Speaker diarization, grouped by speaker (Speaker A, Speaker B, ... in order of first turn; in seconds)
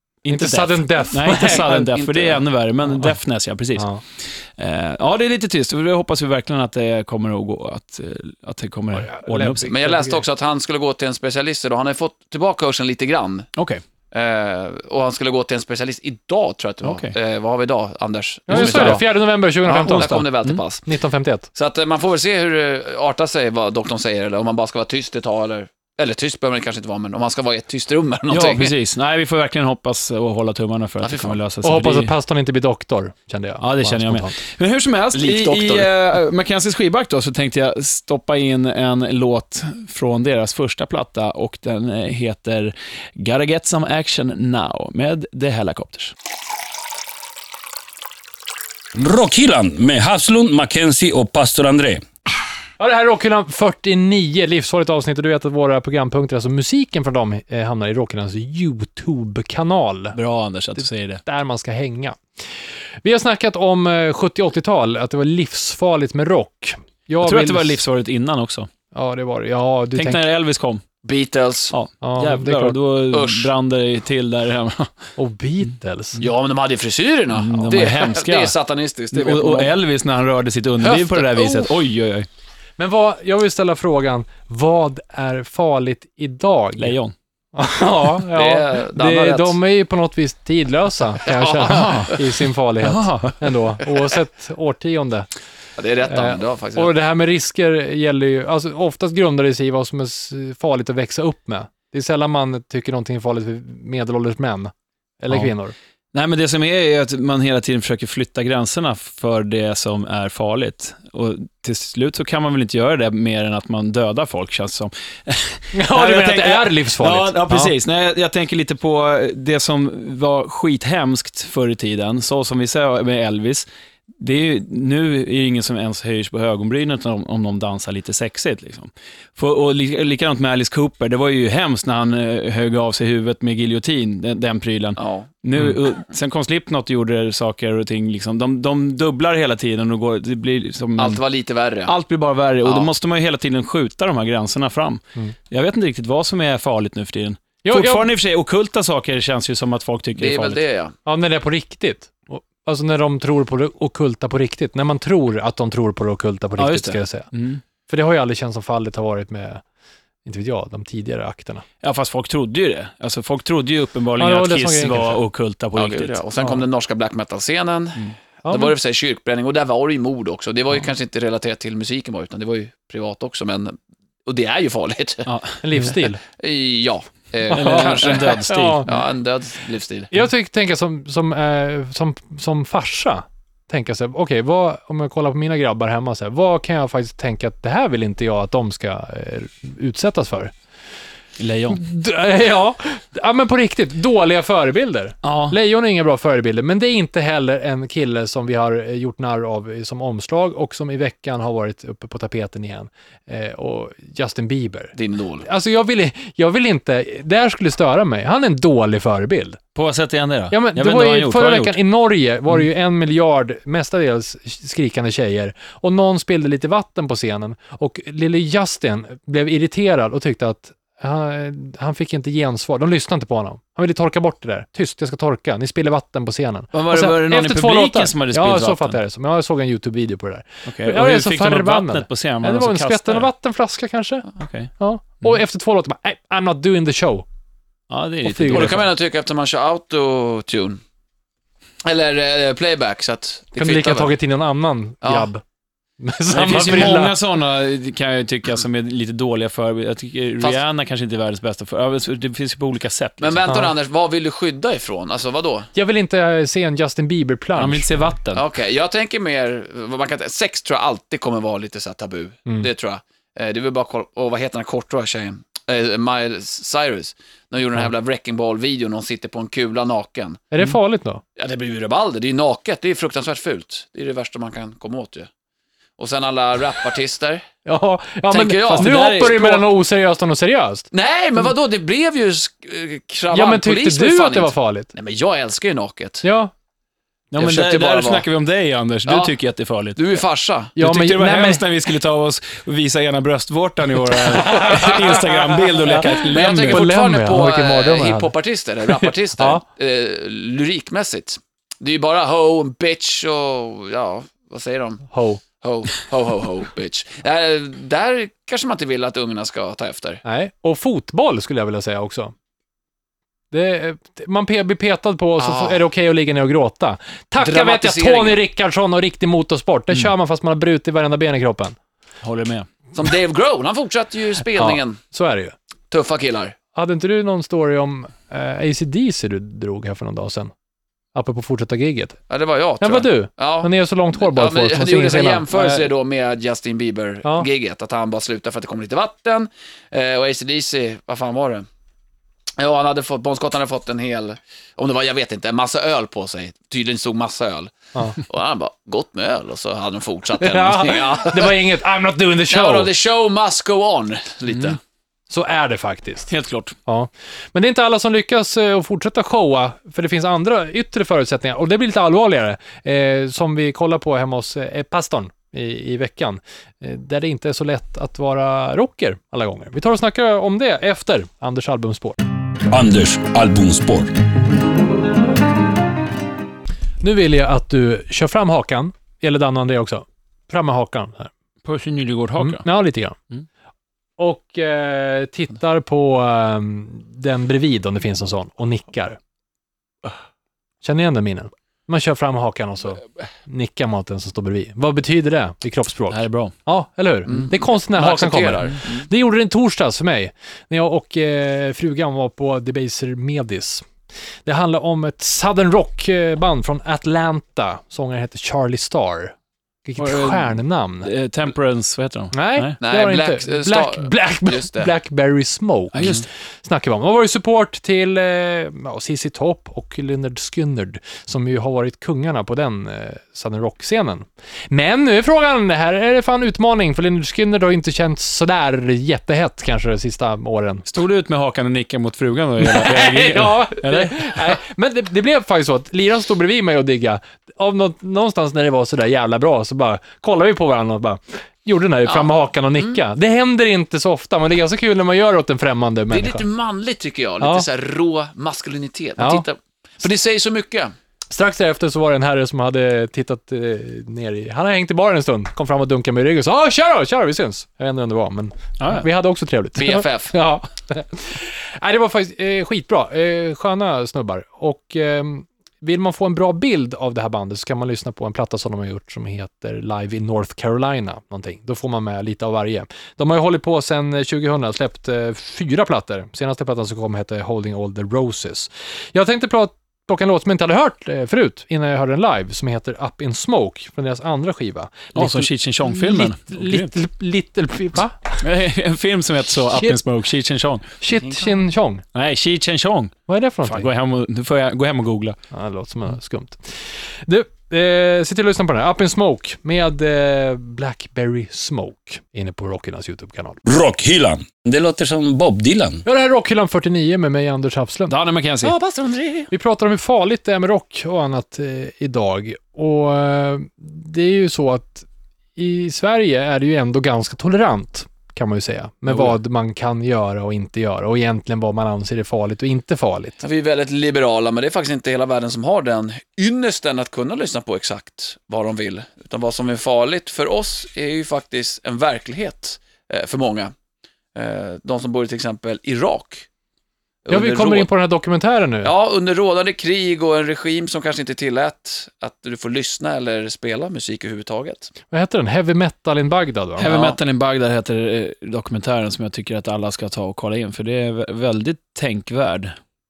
Speaker A: 0.2-9.7, 13.6-13.8, 16.8-17.1, 18.5-19.0, 19.9-20.6, 28.3-32.1, 33.6-46.1, 60.1-61.2, 67.2-68.7, 69.9-70.8, 71.7-74.9, 77.3-78.5, 79.1-82.3, 86.8-87.1, 91.7-92.2, 92.8-93.5, 106.1-123.7, 124.2-141.2, 141.8-150.6, 156.6-157.6, 161.8-166.2, 175.2-175.9, 177.5-178.8, 191.4-191.8, 195.2-195.6, 209.7-211.8, 226.7-229.0, 230.7-233.3, 234.4-234.7, 237.9-238.9, 246.3-253.6, 257.6-258.4, 278.7-279.6, 287.3-290.2, 290.8-296.9, 322.2-322.7, 356.3-356.7, 381.6-382.6, 396.1-396.5, 410.0-412.8, 415.9-416.2, 430.9-434.5, 458.8-459.1, 485.1-486.9, 488.4-490.9, 492.1-495.4, 508.1-508.8, 546.8-552.7
Speaker B: 0.3-1.9, 3.8-4.0, 8.9-10.2, 18.5-20.3, 20.9-21.5, 31.6-34.4, 52.8-60.2, 60.8-62.2, 63.0-67.8, 68.9-70.2, 72.0-72.8, 75.2-76.2, 82.8-87.0, 87.5-95.3, 96.1-105.7, 115.7-117.7, 147.6-148.1, 151.1-157.3, 157.9-159.6, 160.2-161.6, 164.2-165.2, 168.4-168.7, 175.6-176.2, 177.5-178.9, 180.1-190.5, 191.7-209.6, 210.5-237.2, 238.2-238.8, 243.6-245.4, 246.0-247.2, 255.7-258.1, 270.5-271.2, 277.6-280.9, 283.3-284.9, 286.2-286.5, 290.8-291.6, 294.1-298.3, 299.0-299.6, 305.1-305.4, 310.2-312.3, 313.5-321.8, 324.6-325.5, 326.7-330.5, 331.1-332.2, 332.8-335.9, 350.4-352.9, 355.3-356.3, 356.9-372.2, 377.0-381.3, 382.4-383.2, 384.2-389.2, 390.8-403.9, 404.4-411.1, 412.3-430.9, 432.6-446.4, 449.2-449.4, 451.3-488.4, 489.7-490.0, 491.0-492.0, 493.3-493.9, 495.5-503.6, 506.0-508.1, 509.5-523.4, 537.3-538.9, 545.1-546.9
Speaker C: 1.3-2.4, 9.6-13.5, 14.1-19.1, 19.6-20.8, 21.5-28.7, 31.0-31.4, 35.1-35.9, 71.0-71.7, 73.1-73.5, 76.2-79.7, 80.8-81.7, 88.3-89.6, 91.2-92.2, 95.8-96.9, 135.0-135.3, 141.0-141.9, 142.6-142.9, 150.2-150.9, 165.7-175.3, 176.3-180.1, 204.9-205.4, 238.5-240.8, 241.8-244.1, 245.0-245.3, 253.2-255.7, 258.3-270.4, 271.4-275.3, 276.0-277.4, 278.3-278.9, 280.9-286.2, 287.4-288.2, 289.1-289.3, 289.9-290.7, 296.2-310.2, 315.4-315.8, 317.4-318.4, 322.9-325.0, 325.9-326.5, 332.3-341.6, 342.6-351.7, 352.5-354.8, 397.3-399.1, 412.8-414.9, 442.1-443.0, 446.1-450.9, 459.8-460.3, 491.1-491.6, 508.6-509.5, 523.4-533.7, 534.3-536.5, 537.2-537.9, 538.8-544.9, 546.9-547.2
Speaker D: 48.9-52.0, 372.7-374.1, 503.6-506.0